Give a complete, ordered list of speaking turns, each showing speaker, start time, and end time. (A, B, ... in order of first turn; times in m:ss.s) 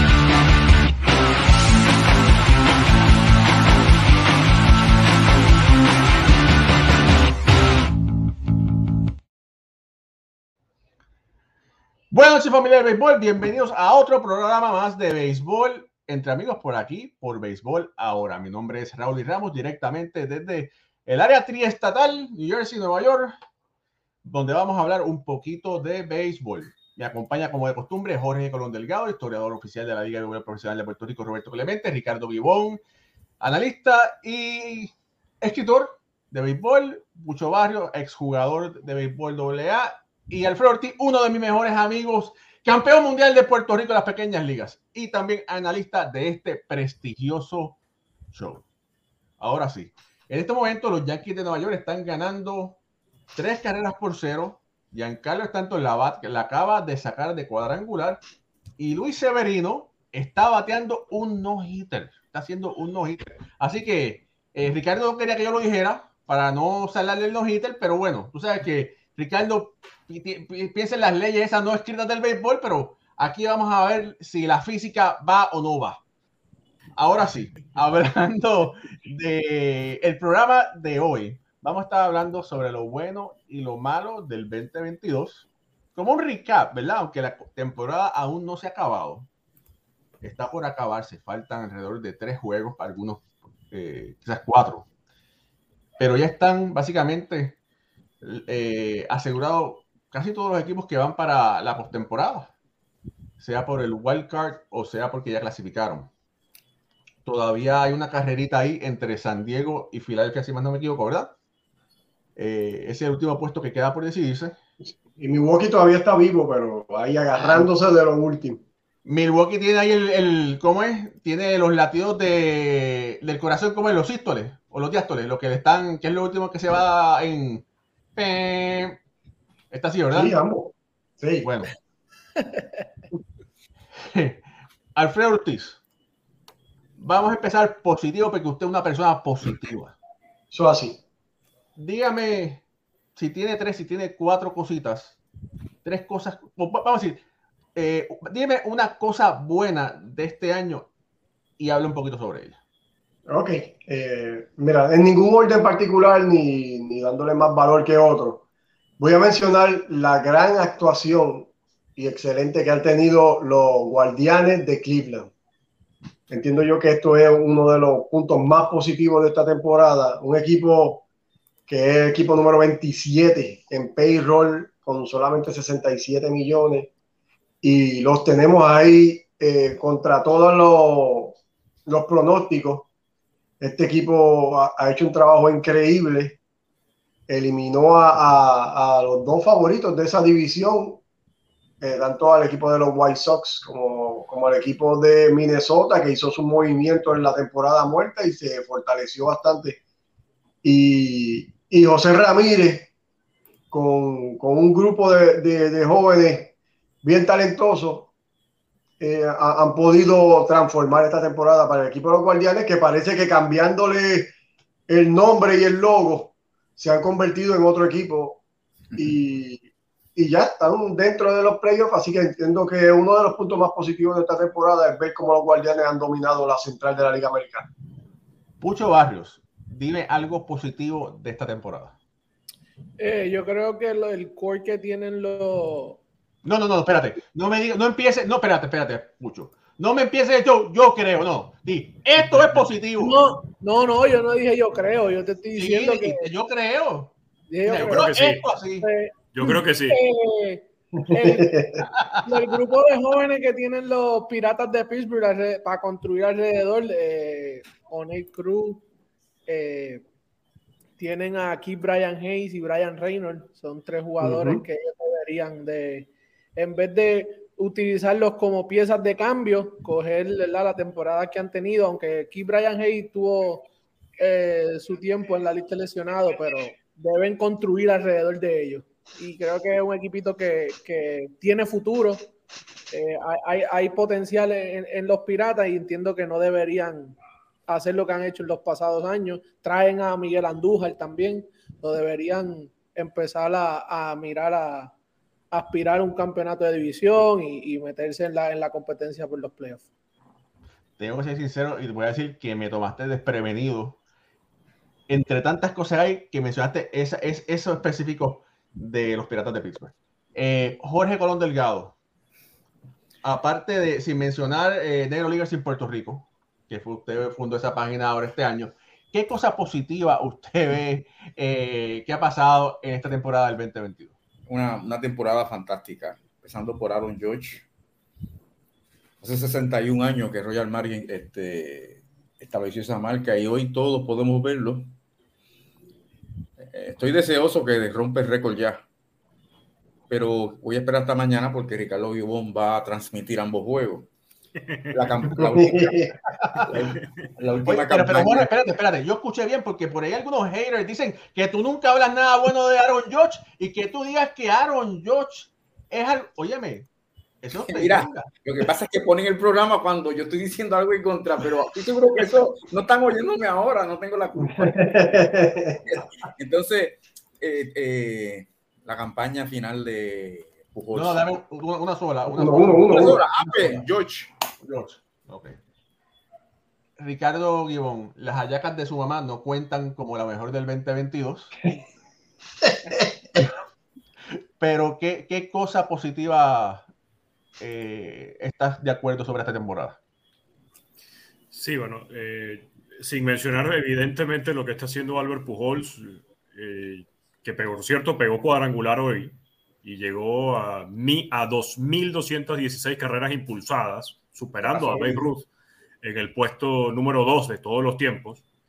0:12.1-0:23.4 A
0:24.2-0:32.8 A
0:33.4-0:47.8 A
0:48.3-0:48.6 A
0:49.4-0:52.8 A
0:53.4-0:58.2 A
0:58.8-1:16.0 A
1:17.0-1:29.3 A
1:30.2-1:34.9 A
1:36.0-1:37.6 A
1:38.2-1:42.5 A
1:43.4-1:46.1 A
1:47.2-1:51.3 A
1:52.4-1:54.6 A
1:54.9-1:58.6 B
1:59.0-2:07.6 A
2:08.2-2:09.0 A
2:09.7-2:10.4 A
2:10.1-2:11.5 B
2:11.4-2:11.7 A
2:14.0-2:14.4 A
2:15.0-2:15.8 A
2:17.0-2:20.0 A
2:20.5-2:21.0 B
2:21.8-2:22.6 A
2:23.2-2:25.2 A
2:25.8-2:27.2 A
2:27.8-2:30.9 A
2:31.6-2:32.6 A
2:33.3-2:38.4 B
2:39.0-2:45.3 B
2:46.3-2:51.0 B
2:51.7-2:56.9 B
2:57.6-3:02.9 B
3:03.6-3:06.4 B
3:07.3-3:11.0 B
3:11.8-3:19.8 B
3:20.6-3:22.9 B
3:23.7-3:28.1 B
3:29.0-3:34.3 B
3:34.9-3:38.4 B
3:39.0-3:39.6 B
3:40.2-3:47.7 B
3:48.6-3:52.0 A
3:53.0-3:56.0 C
3:56.4-4:03.2 A
4:02.3-4:02.6 D
4:03.0-4:06.3 C
4:05.6-4:07.1 A
4:07.5-4:08.1 C
4:07.6-4:08.9 A
4:07.8-4:08.5 D
4:08.8-4:11.6 C
4:09.3-4:10.0 D
4:11.0-4:11.9 B
4:11.8-4:12.5 A
4:12.2-4:18.8 C
4:19.5-4:20.0 C
4:21.0-4:42.3 C
4:24.2-4:24.6 B
4:42.9-4:47.2 C
4:47.7-4:54.9 C
4:55.5-4:59.9 C
5:01.0-5:04.0 A
5:05.1-5:12.0 A
5:13.2-5:24.1 A
5:24.5-5:27.7 E
5:29.2-5:34.9 E
5:36.6-5:38.8 E
5:40.1-5:44.1 E
5:44.9-5:48.5 E
5:45.4-5:46.1 B
5:46.4-5:46.6 A
5:47.7-5:56.9 A
5:57.4-5:58.3 A
5:57.7-6:11.3 E
6:04.5-6:05.8 B
6:10.9-6:13.8 A
6:12.3-6:13.2 B
6:12.8-6:14.3 E
6:14.6-6:15.6 A
6:17.0-6:21.5 A
6:24.6-6:26.9 A
6:27.6-6:30.0 A
6:31.5-6:45.5 D
6:44.9-6:45.2 B
6:46.0-6:48.4 D